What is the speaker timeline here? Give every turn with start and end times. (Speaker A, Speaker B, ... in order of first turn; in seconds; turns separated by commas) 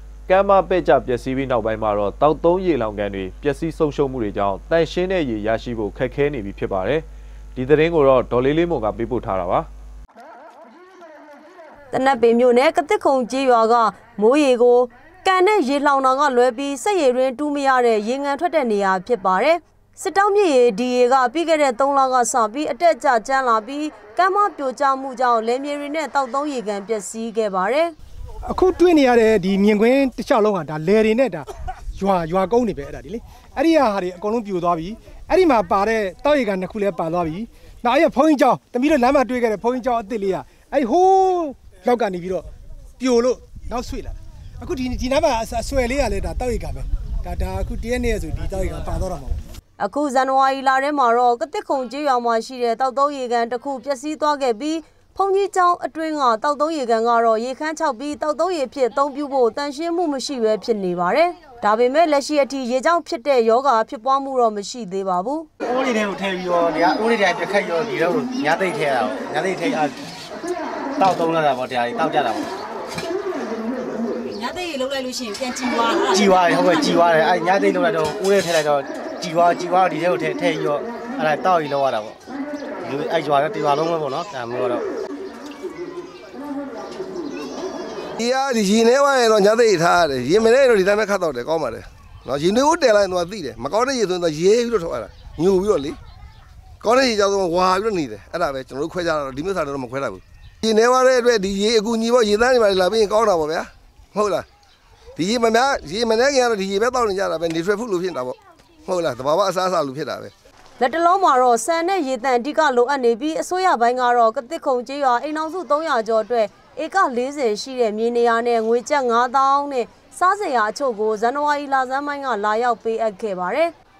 Speaker A: 0.3-7.0, Speaker A: 7.5-9.7, Speaker B: 11.9-27.9, Speaker C: 28.5-42.5, Speaker C: 43.0-49.4, Speaker B: 49.8-65.5, Speaker D: 65.6-70.0, Speaker D: 71.0-72.5, Speaker E: 74.2-76.9, Speaker D: 76.1-82.2, Speaker D: 82.8-84.8, Speaker F: 88.2-96.0, Speaker F: 96.8-104.5, Speaker F: 105.2-110.3, Speaker B: 110.8-123.7